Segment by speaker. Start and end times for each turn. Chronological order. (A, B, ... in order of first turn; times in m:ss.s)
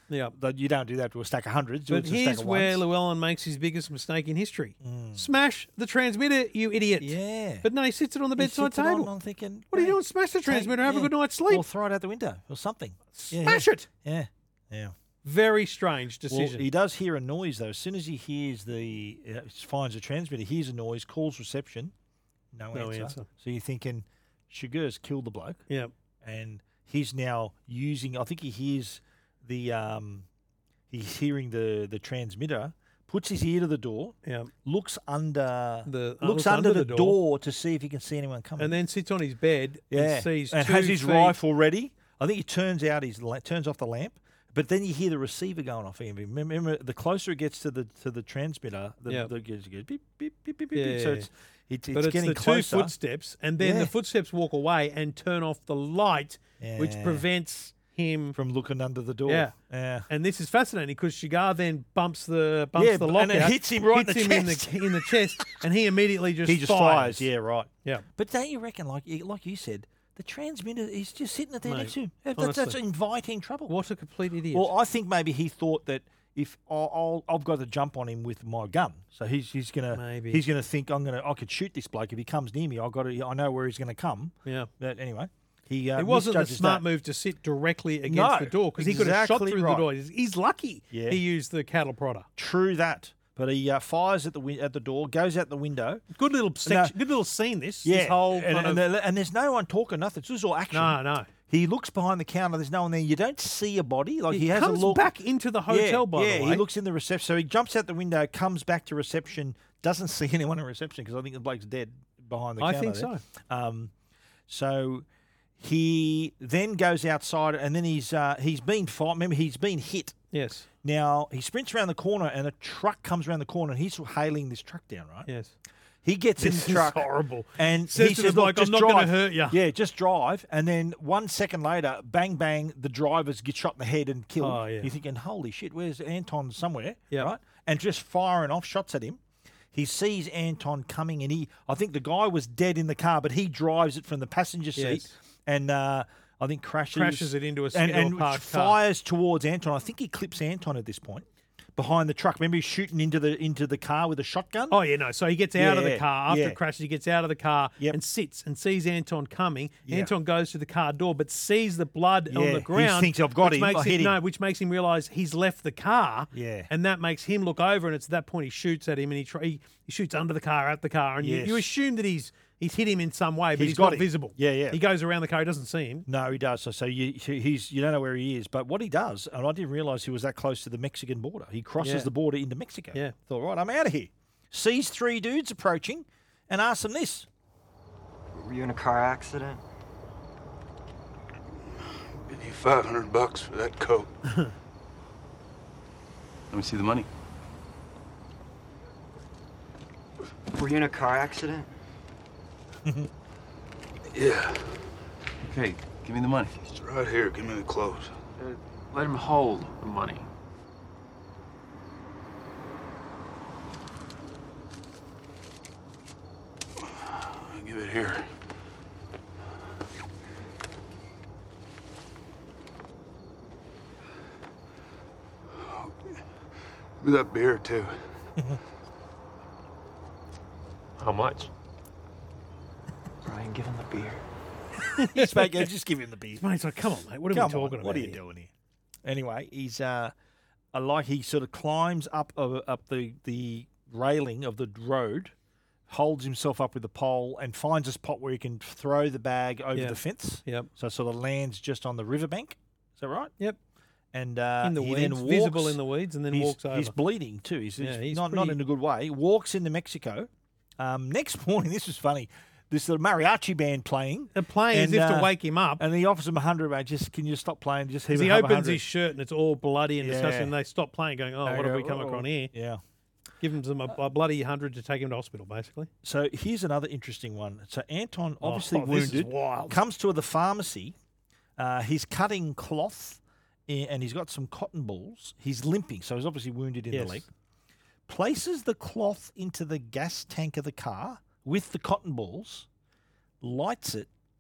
0:00.3-0:02.8 A
0:01.9-0:09.1 B
0:04.8-0:05.3 A
0:07.0-0:07.7 A
0:08.4-0:14.9 A
0:09.7-0:11.6 B
0:13.2-0:13.9 B
0:15.2-0:16.7 B
0:16.3-0:21.9 A
0:22.5-0:25.6 A
0:22.7-0:23.3 B
0:26.2-0:30.3 A
0:30.9-0:38.8 A
0:34.2-0:34.5 B
0:35.9-0:37.2 B
0:38.6-0:41.4 B
0:39.9-0:52.9 A
0:50.8-0:51.3 B
0:51.9-0:58.4 B
0:53.6-0:53.9 A
0:56.6-0:57.2 A
0:58.3-1:00.1 A
0:59.3-0:59.5 B
1:00.1-1:07.3 B
1:02.8-1:05.5 A
1:06.4-1:13.7 A
1:11.7-1:12.8 B
1:13.7-1:14.7 B
1:14.5-1:26.9 A
1:19.9-1:20.4 B
1:26.0-1:32.3 B
1:28.1-1:29.9 A
1:30.9-1:31.2 A
1:32.4-1:36.0 A
1:36.2-1:38.8 B
1:36.7-1:36.9 A
1:37.8-1:45.1 A
1:40.7-1:41.3 B
1:44.3-1:46.6 B
1:45.7-1:53.9 A
1:52.6-1:53.2 B
1:54.5-1:55.1 A
1:55.6-2:00.2 A
2:00.3-2:00.7 B
2:00.8-2:05.3 A
2:05.3-2:05.6 B
2:06.0-2:19.2 A
2:06.4-2:09.6 B
2:14.4-2:14.9 B
2:19.7-2:34.8 A
2:24.8-2:25.1 B
2:26.9-2:28.8 B
2:34.7-2:56.1 B
2:35.6-2:36.6 A
2:39.9-2:40.1 A
2:42.3-2:44.2 A
2:46.3-2:46.7 A
2:51.2-2:51.7 A
2:53.6-2:54.8 A
2:56.1-3:07.3 A
3:01.8-3:02.1 B
3:08.4-3:09.6 C
3:12.2-3:14.1 D
3:16.5-3:17.1 E
3:20.8-3:21.6 C
3:24.1-3:24.7 D
3:25.4-3:26.6 E
3:26.7-3:28.1 D
3:28.4-3:30.3 E
3:37.1-3:38.3 D
3:47.0-3:48.0 D
3:51.0-3:51.5 E
3:55.0-3:55.7 B
3:55.0-3:56.5 A
3:56.4-3:58.2 B
3:57.3-3:58.5 A
3:59.0-4:00.1 A
4:00.7-4:05.3 A
4:05.9-4:13.3 A
4:09.8-4:10.7 B
4:14.1-4:15.8 A
4:14.6-4:16.9 B
4:16.3-4:28.8 A
4:17.8-4:18.6 B
4:24.4-4:25.8 B
4:28.1-4:32.5 B
4:30.0-4:30.5 A
4:31.4-4:32.8 A
4:33.4-4:35.9 B
4:36.0-4:41.0 A
4:38.4-4:39.8 B
4:41.6-4:47.3 A
4:46.9-4:47.2 B
4:48.1-4:52.7 A
4:53.4-4:54.1 A